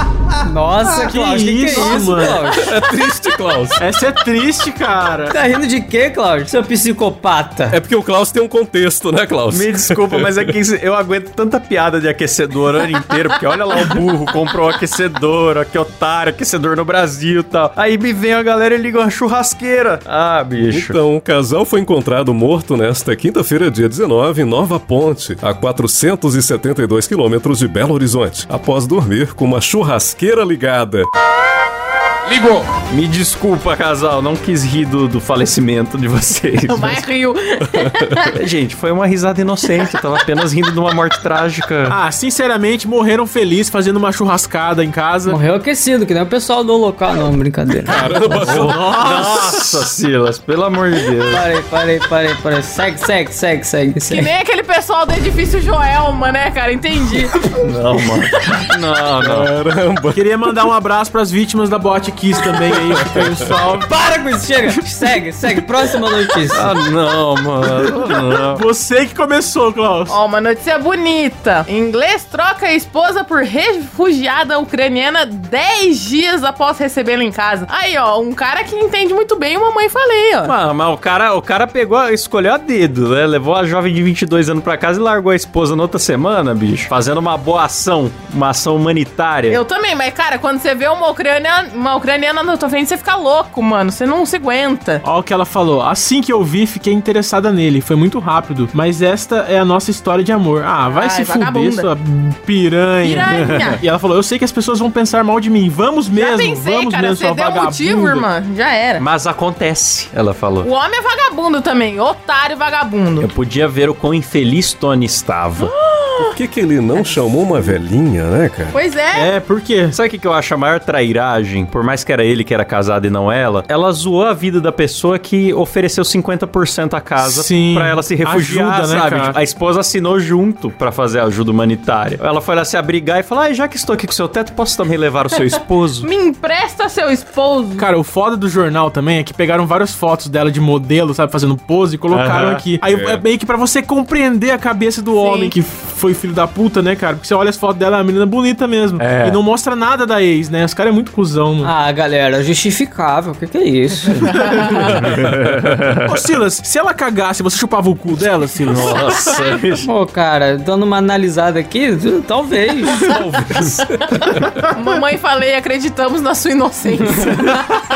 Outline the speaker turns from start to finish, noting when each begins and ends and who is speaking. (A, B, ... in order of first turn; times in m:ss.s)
0:00.4-0:02.8 A
0:01.0-0:02.5 B
0:02.5-0:03.8 C
0:03.8-0:05.4 B
0:05.3-0:07.8 A
0:07.7-0:10.5 C
0:09.5-0:21.0 D
0:20.7-0:31.1 C
0:32.3-0:37.0 D
0:36.7-0:38.3 E
0:37.7-0:38.1 C
0:38.3-0:42.0 D
0:41.9-0:45.4 B
0:45.3-0:48.6 A
0:47.9-0:48.9 C
0:48.4-0:49.8 B
0:48.6-0:51.4 D
0:51.3-0:54.3 A
0:54.1-0:57.4 E
0:57.1-0:57.3 A
0:57.6-0:59.5 D
0:59.2-1:00.2 C
1:00.1-1:04.0 B
1:02.8-1:03.5 C
1:03.9-1:06.7 A
1:06.5-1:08.6 D
1:07.7-1:10.2 B
1:10.1-1:20.6 E
1:20.4-1:29.6 D
1:29.5-1:35.0 E
1:35.0-1:48.3 B
1:40.9-1:41.9 E
1:43.0-1:43.8 E
1:43.5-1:43.8 D
1:46.2-1:49.0 E
1:49.0-1:50.7 D
1:50.6-1:53.3 E
1:53.2-1:55.7 D
1:55.6-1:56.4 E
1:56.2-1:58.8 C
1:58.7-1:59.3 E
1:59.1-2:00.0 B
1:59.9-2:16.1 D
2:07.2-2:09.4 B
2:16.0-2:17.9 E
2:17.8-2:31.7 B
2:22.1-2:22.6 D
2:22.8-2:23.2 C
2:25.2-2:25.5 E
2:29.0-2:29.4 D
2:31.6-2:34.3 A
2:34.1-2:35.9 D
2:34.3-2:35.0 B
2:36.0-2:39.5 B
2:38.6-2:39.9 D
2:39.8-2:43.2 A
2:43.0-2:43.8 D
2:44.7-2:47.6 E